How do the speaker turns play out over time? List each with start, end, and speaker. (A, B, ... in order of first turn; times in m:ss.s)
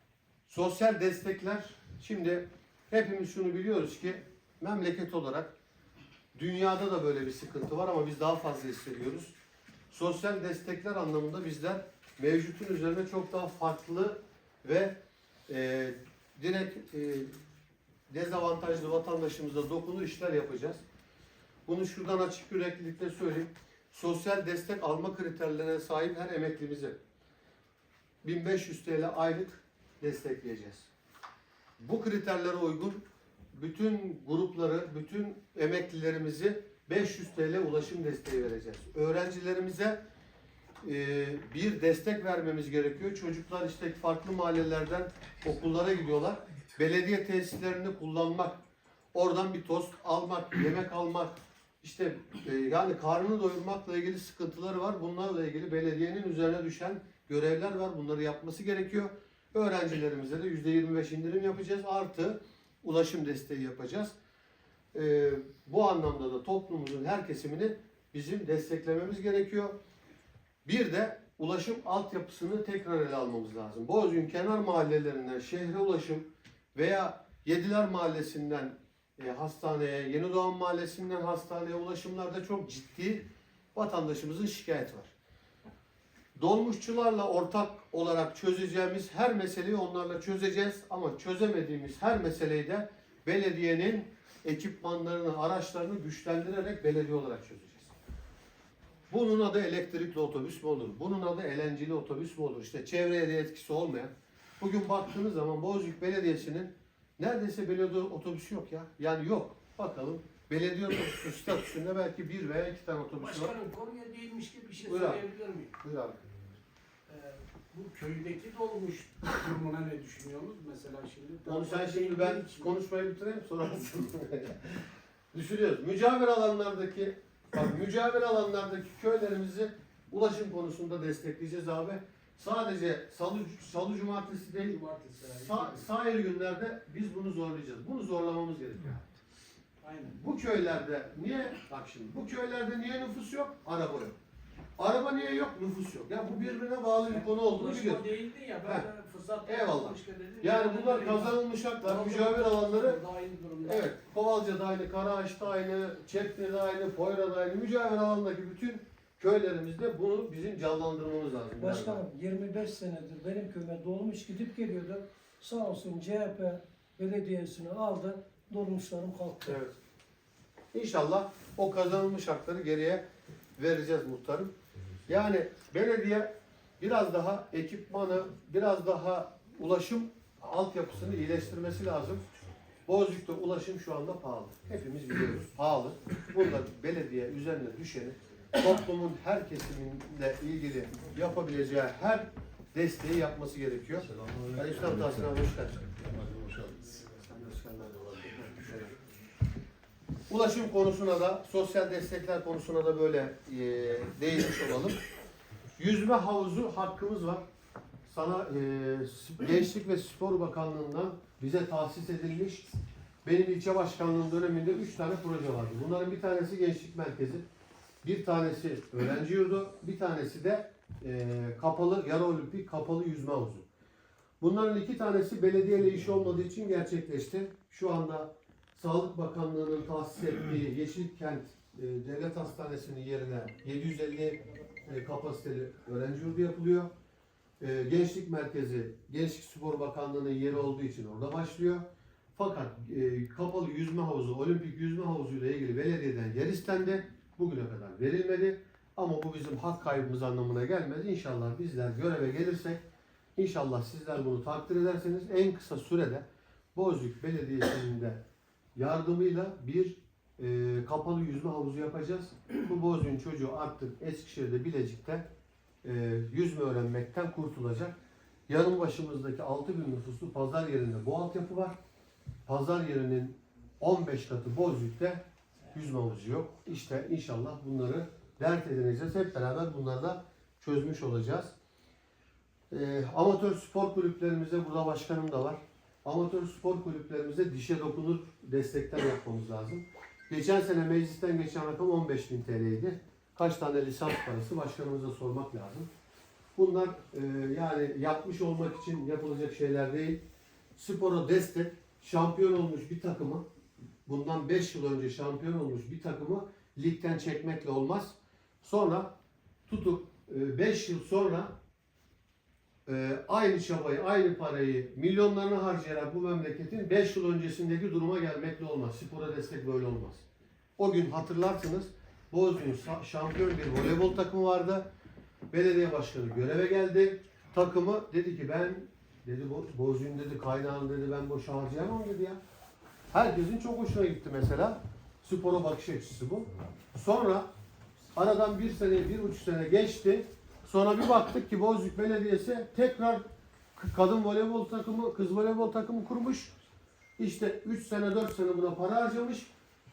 0:00.5-0:05.5 A
0:06.3-0:09.3 A
0:09.9-0:17.3 A
0:18.1-0:20.8 A
0:21.6-0:27.0 A
0:28.2-0:30.9 A
0:31.8-0:33.0 A
0:33.5-0:40.0 A
0:40.8-0:48.6 A
0:49.1-1:04.1 A
1:04.9-1:09.8 A
1:10.6-1:25.1 A
1:26.4-1:37.9 A
1:39.1-1:53.5 A
1:53.2-1:55.7 B
1:54.8-1:55.2 A
1:55.8-1:56.4 A
1:57.1-2:02.7 B
2:01.4-2:04.8 A
2:05.3-2:14.8 A
2:14.6-2:15.8 B
2:15.3-2:19.0 A
2:19.8-2:20.2 B
2:20.1-2:24.2 A
2:24.8-2:28.1 A
2:27.1-2:33.9 B
2:29.4-2:33.0 A
2:33.6-2:42.0 A
2:41.6-2:49.6 C
2:49.4-2:49.8 A
2:50.7-2:53.0 A
2:53.6-2:54.6 A
2:55.1-3:02.2 A
3:02.8-3:16.1 A
3:16.8-3:19.0 A
3:20.3-3:25.0 A
3:25.8-3:27.4 A
3:28.1-3:32.7 A
3:33.2-3:37.4 A
3:38.0-3:43.6 A
3:44.4-3:56.9 A
3:57.6-4:12.8 A
4:13.4-4:18.2 A
4:18.7-4:25.3 A
4:25.8-4:27.9 A
4:28.5-4:31.8 A
4:32.4-4:41.5 A
4:42.7-4:55.9 A
4:56.6-5:00.2 A
5:00.8-5:03.5 A
5:04.0-5:09.1 A
5:09.7-5:11.6 A
5:12.8-5:20.2 A
5:20.8-5:24.9 A
5:25.5-5:32.4 A
5:33.1-5:37.5 A
5:38.1-5:43.2 A
5:43.8-5:46.5 A
5:47.2-5:49.5 A